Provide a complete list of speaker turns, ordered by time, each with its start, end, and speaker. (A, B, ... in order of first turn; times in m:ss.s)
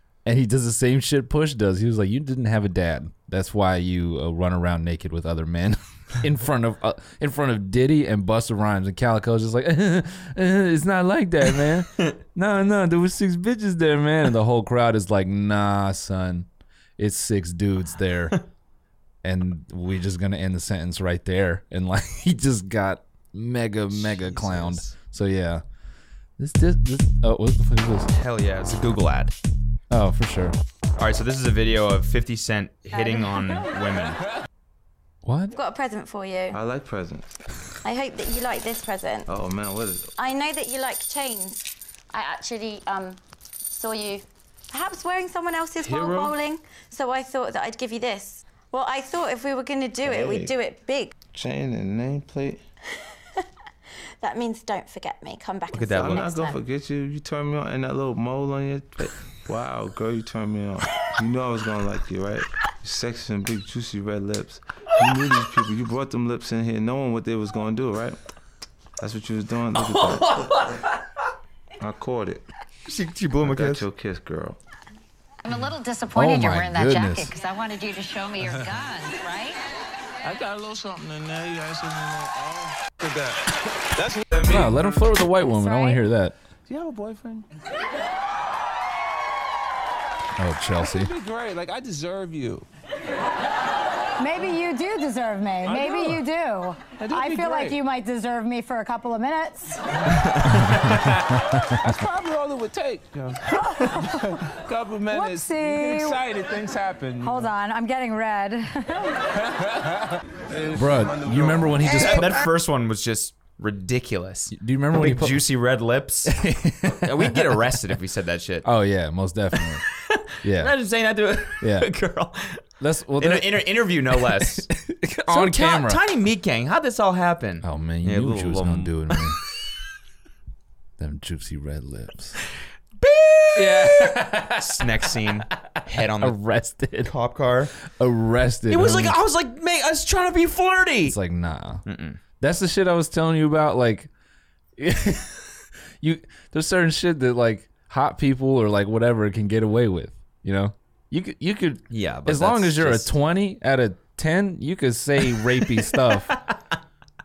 0:00.2-0:18.4 A
0:19.2-0:25.6 A
0:23.9-0:24.9 B
0:26.4-0:28.1 A
0:28.1-0:29.3 B
0:29.9-0:30.6 A
0:31.0-0:34.2 B
0:35.2-0:35.5 A
0:35.5-0:36.6 C
0:36.5-0:37.2 D
0:37.8-0:39.3 C
0:39.3-0:40.1 D
0:40.2-0:51.1 C
0:45.8-0:46.4 D
0:50.0-0:50.5 D
0:51.3-0:52.6 D
0:54.2-0:56.6 C
0:55.7-0:56.2 B
0:55.9-1:08.2 D
1:09.0-1:10.7 D
1:09.7-1:11.0 A
1:11.8-1:12.4 D
1:12.9-1:13.8 B
1:13.4-1:14.6 D
1:15.4-1:19.6 E
1:16.1-1:17.3 A
1:20.2-1:25.0 D
1:24.4-1:26.4 A
1:25.5-1:26.0 F
1:26.7-1:27.4 D
1:30.4-1:31.1 A
1:30.8-1:32.7 D
1:34.2-1:39.8 F
1:35.6-1:36.2 D
1:37.0-1:37.8 D
1:40.1-1:41.1 B
1:40.5-1:41.7 A
1:41.3-1:47.5 D
1:43.5-1:44.4 F
1:45.1-1:46.2 F
1:47.2-1:49.2 F
1:49.5-1:49.9 D
1:50.5-1:51.9 D
1:50.7-1:52.5 A
1:51.9-1:58.7 B
1:54.5-1:55.4 A
1:56.3-1:57.7 A
1:58.6-1:59.8 A
1:59.6-2:02.6 B
2:00.4-2:00.7 A
2:01.6-2:01.9 A
2:02.8-2:06.0 A
2:03.2-2:04.6 B
2:05.3-2:09.3 B
2:07.6-2:09.4 A
2:11.0-2:12.4 A
2:13.0-2:16.4 B
2:13.6-2:17.1 A
2:17.0-2:17.7 B
2:17.8-2:19.2 A
2:18.7-2:21.2 B
2:21.0-2:21.8 A
2:21.8-2:22.2 B
2:22.4-2:24.1 A
2:24.8-2:36.4 A
2:31.9-2:33.1 B
2:36.3-2:36.5 B